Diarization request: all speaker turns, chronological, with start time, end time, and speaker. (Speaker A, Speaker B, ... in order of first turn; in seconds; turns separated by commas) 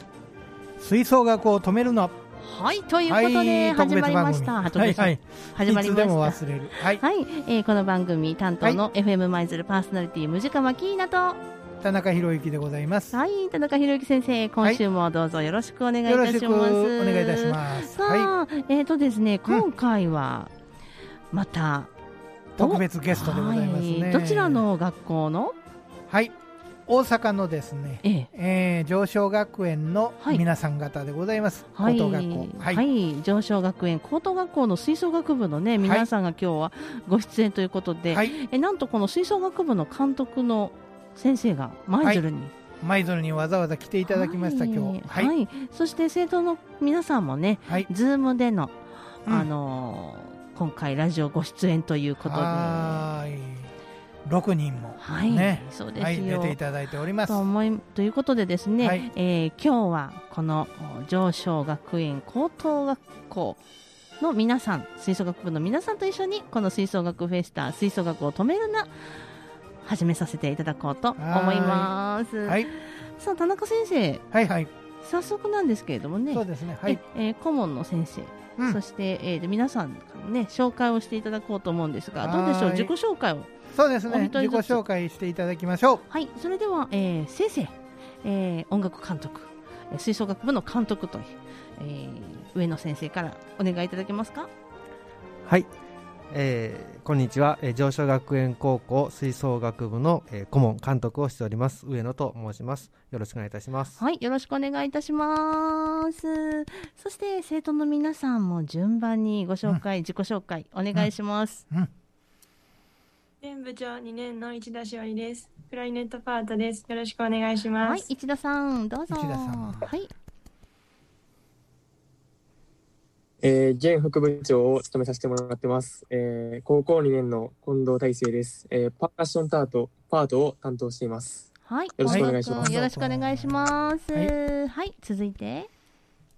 Speaker A: 0.8-2.2, Speaker B: 2.4-11.4, Speaker A: 3.1-7.0, Speaker A: 11.8-13.2, Speaker B: 13.1-20.5, Speaker A: 16.1-18.3, Speaker B: 21.3-21.9, Speaker A: 22.6-24.6, Speaker B: 22.6-25.6, Speaker A: 26.1-26.3, Speaker A: 26.9-32.8, Speaker B: 28.0-28.3, Speaker B: 31.7-42.5, Speaker A: 35.8-36.1, Speaker A: 42.8-45.3, Speaker B: 44.1-53.1, Speaker A: 52.2-53.7, Speaker A: 54.2-57.4, Speaker B: 55.0-56.6, Speaker B: 57.3-63.6, Speaker A: 58.8-59.1, Speaker B: 64.2-69.2, Speaker B: 69.8-74.2, Speaker A: 71.2-71.9, Speaker A: 72.4-72.7, Speaker A: 74.3-74.7, Speaker B: 75.0-83.5, Speaker A: 76.3-77.0, Speaker A: 82.2-82.9, Speaker A: 83.7-86.0, Speaker B: 84.1-84.8, Speaker B: 86.1-94.5, Speaker C: 96.3-104.0, Speaker B: 104.0-111.6, Speaker D: 113.4-118.1, Speaker B: 117.8-120.1, Speaker A: 119.1-119.9, Speaker E: 123.4-132.7, Speaker B: 131.7-135.7, Speaker A: 132.1-134.3